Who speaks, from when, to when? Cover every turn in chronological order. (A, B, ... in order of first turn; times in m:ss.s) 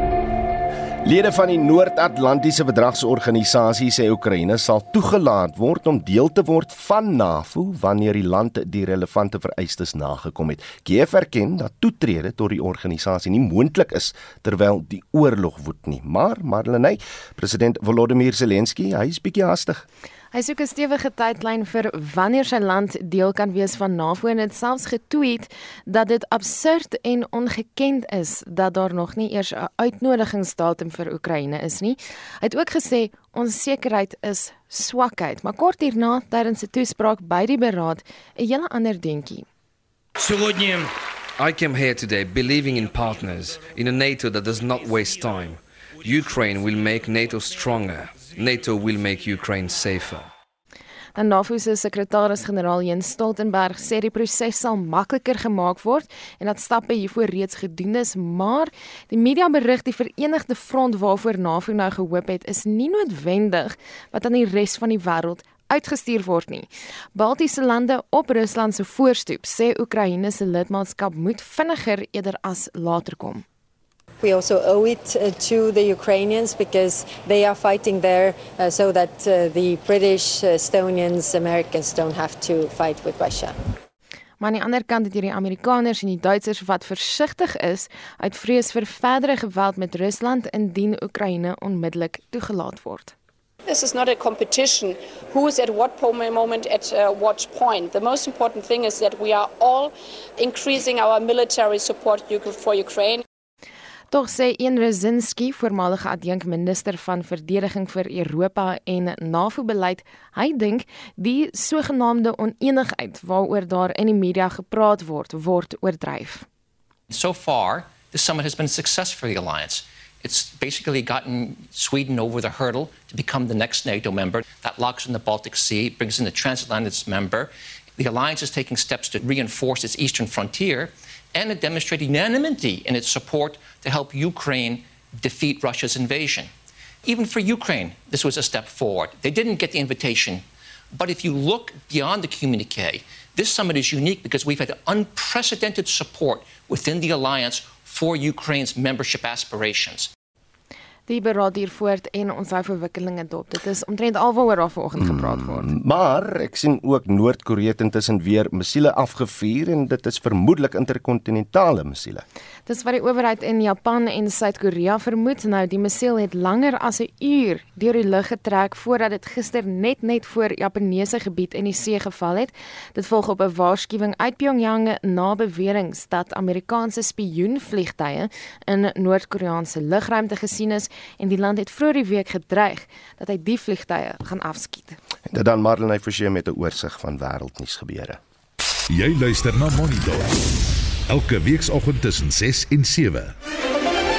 0:01.0-0:19.8 A
0:20.3-0:39.5 B
0:40.2-0:50.3 C
0:51.2-1:13.4 B
1:14.2-1:23.6 D
1:24.4-1:33.2 B
1:33.7-1:43.2 E
1:44.1-1:56.5 B
1:57.1-2:16.5 F
2:17.0-2:30.1 F
2:31.1-2:35.7 B
2:35.0-2:42.2 A
2:42.7-3:05.0 B
3:05.3-3:08.2 A
3:08.9-3:10.3 G
3:11.1-3:13.3 G